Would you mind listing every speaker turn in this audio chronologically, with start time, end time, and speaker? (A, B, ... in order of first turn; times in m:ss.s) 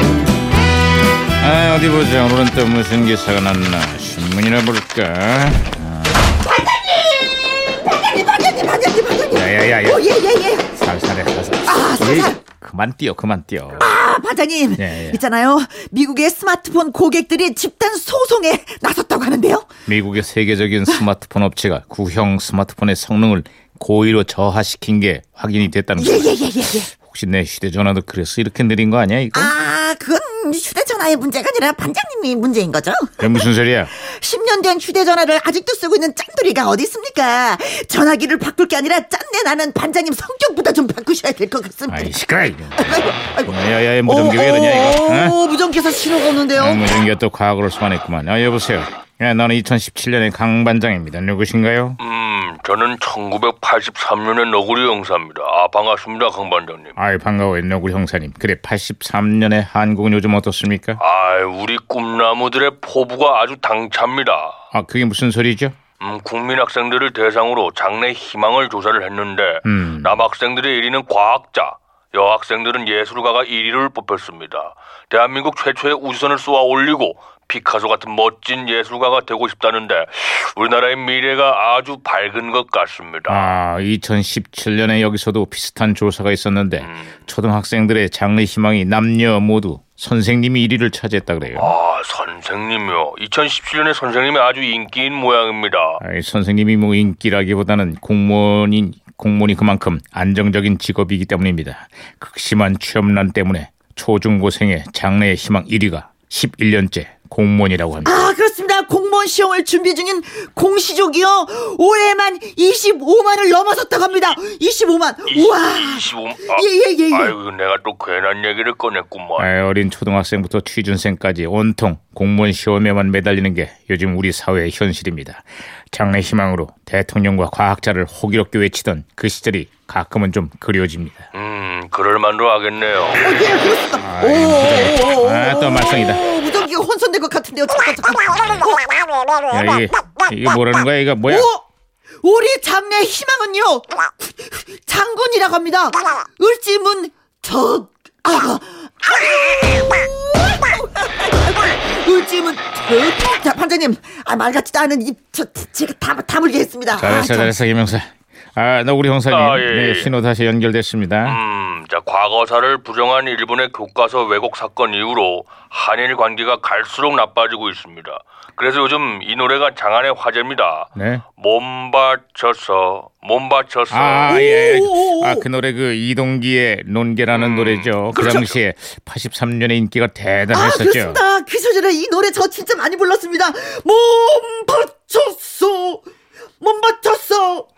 0:01.4-0:06.3 A
0:06.4-0:10.7 B
0:09.3-0:10.1 A
0:10.7-0:13.9 A
0:11.7-0:12.4 B
0:13.8-0:19.7 B
0:14.8-0:15.2 A
0:19.9-0:29.6 A
0:26.0-0:26.9 B
0:29.3-0:33.4 B
0:33.2-0:33.9 A
0:34.0-0:42.1 B
0:41.9-0:45.4 A
0:42.8-0:46.9 B
0:46.6-0:52.0 A
0:52.0-0:57.0 C
0:57.0-1:01.0 A
1:01.0-1:04.6 C
1:04.7-1:05.8 A
1:06.0-1:23.6 C
1:09.6-1:10.2 A
1:23.3-1:31.7 A
1:26.8-1:27.1 C
1:31.5-1:36.0 C
1:36.0-1:48.3 A
1:48.0-1:57.3 B
1:55.3-1:59.5 C
1:59.4-2:11.3 A
2:11.3-2:13.2 C
2:13.2-2:19.2 B
2:14.0-2:16.2 A
2:19.5-2:21.5 A
2:21.3-2:21.6 B
2:22.2-2:37.6 B
2:37.0-2:41.4 A
2:39.3-2:40.1 C
2:41.2-2:54.5 C
2:51.0-2:51.2 A
2:53.9-3:01.2 A
2:54.3-2:55.5 B
2:57.3-2:58.6 C
3:00.5-3:06.0 B
3:06.6-3:07.7 B